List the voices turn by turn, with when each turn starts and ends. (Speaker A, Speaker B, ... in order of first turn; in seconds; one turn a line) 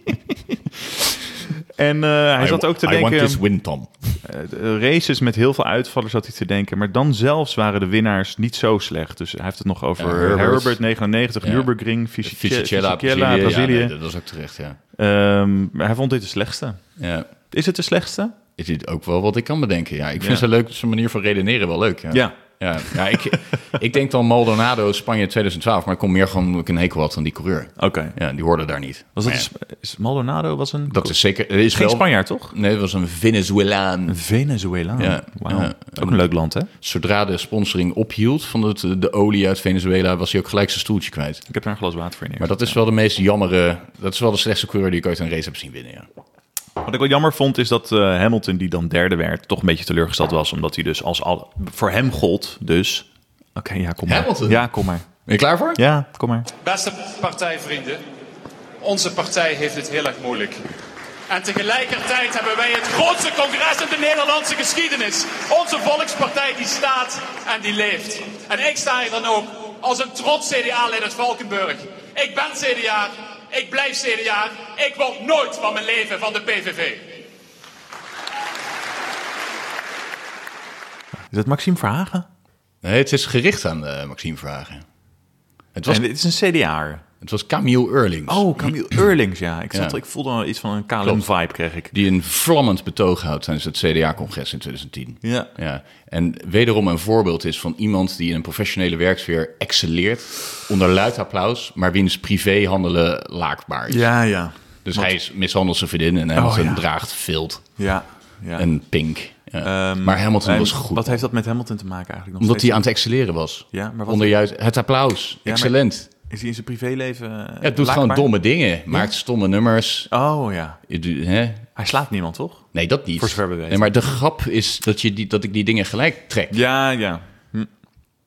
Speaker A: 1.7-3.4
Speaker B: 2.4-4.2
Speaker A: 4.2-13.9
Speaker B: 10.0-10.8
Speaker B: 11.4-11.7
Speaker B: 12.2-14.8
Speaker A: 14.9-16.8
Speaker B: 17.0-17.3
Speaker A: 17.5-18.3
Speaker B: 18.6-29.5
Speaker A: 20.2-20.4
Speaker A: 22.1-23.4
Speaker A: 27.8-28.1
Speaker A: 29.1-31.1
Speaker B: 30.9-34.2
Speaker A: 31.7-32.5
Speaker A: 34.1-36.7
Speaker B: 35.0-41.4
Speaker A: 41.5-42.8
Speaker B: 42.4-46.1
Speaker A: 46.8-55.1
Speaker B: 54.0-55.8
Speaker A: 55.7-56.5
Speaker C: 56.6-58.0
Speaker C: 58.8-60.6
Speaker C: 61.3-77.2
Speaker A: 81.3-82.3
Speaker B: 82.8-84.8
Speaker B: 85.7-86.0
Speaker A: 85.9-87.0
Speaker B: 87.2-88.5
Speaker A: 88.3-91.9
Speaker B: 91.0-91.3
Speaker B: 91.9-104.1
Speaker A: 95.2-95.5
Speaker A: 103.9-105.1
Speaker B: 104.8-107.8
Speaker A: 106.3-106.8
Speaker A: 107.8-108.7
Speaker B: 108.5-111.2
Speaker A: 109.6-112.8
Speaker B: 112.4-116.1
Speaker A: 113.7-114.4
Speaker A: 115.4-118.3
Speaker B: 117.6-120.1
Speaker A: 120.1-120.8
Speaker B: 120.9-121.7
Speaker A: 121.8-122.6
Speaker B: 122.7-126.6
Speaker A: 123.2-123.9
Speaker A: 126.5-127.7